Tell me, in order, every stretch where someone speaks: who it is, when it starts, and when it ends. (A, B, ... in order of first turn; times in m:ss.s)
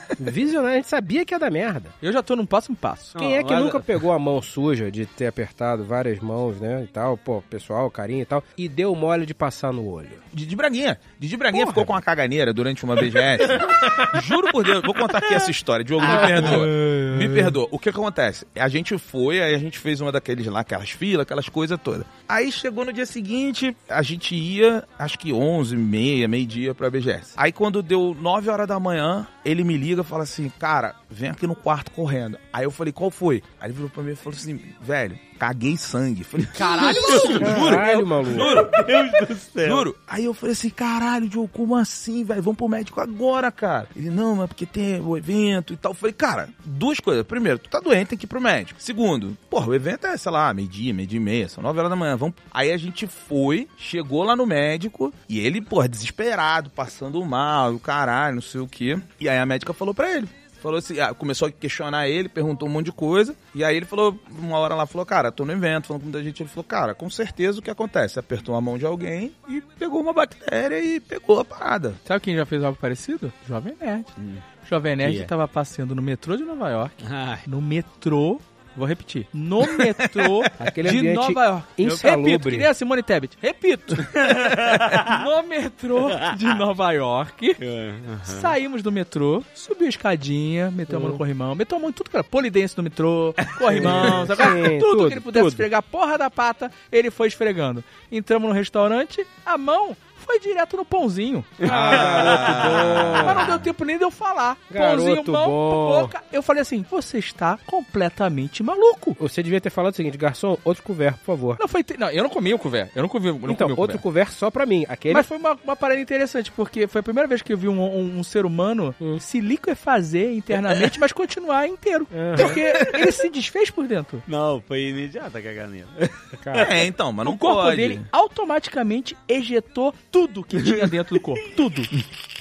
0:00.2-0:01.9 A
0:02.0-0:03.1 B
0:03.1-0:03.8 C
0:03.2-0:10.2 A
0:10.3-0:38.8 D
0:11.5-0:11.9 A
0:16.1-0:17.0 A
0:36.5-0:37.8 B
0:37.0-0:39.8 C
0:37.4-0:38.5 A
0:39.6-1:12.0 D
1:12.0-1:27.6 B
1:14.2-1:14.4 C
1:15.0-1:15.3 C
1:17.0-1:17.4 C
1:19.7-1:20.5 D
1:20.6-1:22.7 A
1:24.0-1:25.2 C
1:27.6-1:28.5 C
1:28.3-1:41.7 B
1:30.9-1:31.2 A
1:33.7-1:35.7 A
1:33.8-1:34.2 D
1:41.6-1:43.1 C
1:41.6-1:43.6 A
1:41.6-1:43.6 D
1:43.2-1:49.2 B
1:44.7-1:46.1 A
1:49.2-1:51.6 A
1:51.6-1:54.0 B
1:53.5-1:55.3 A
1:55.1-2:04.2 B
2:02.1-2:02.6 A
2:04.2-2:06.8 C
2:06.4-2:06.7 A
2:06.6-2:08.0 D
2:07.2-2:11.9 B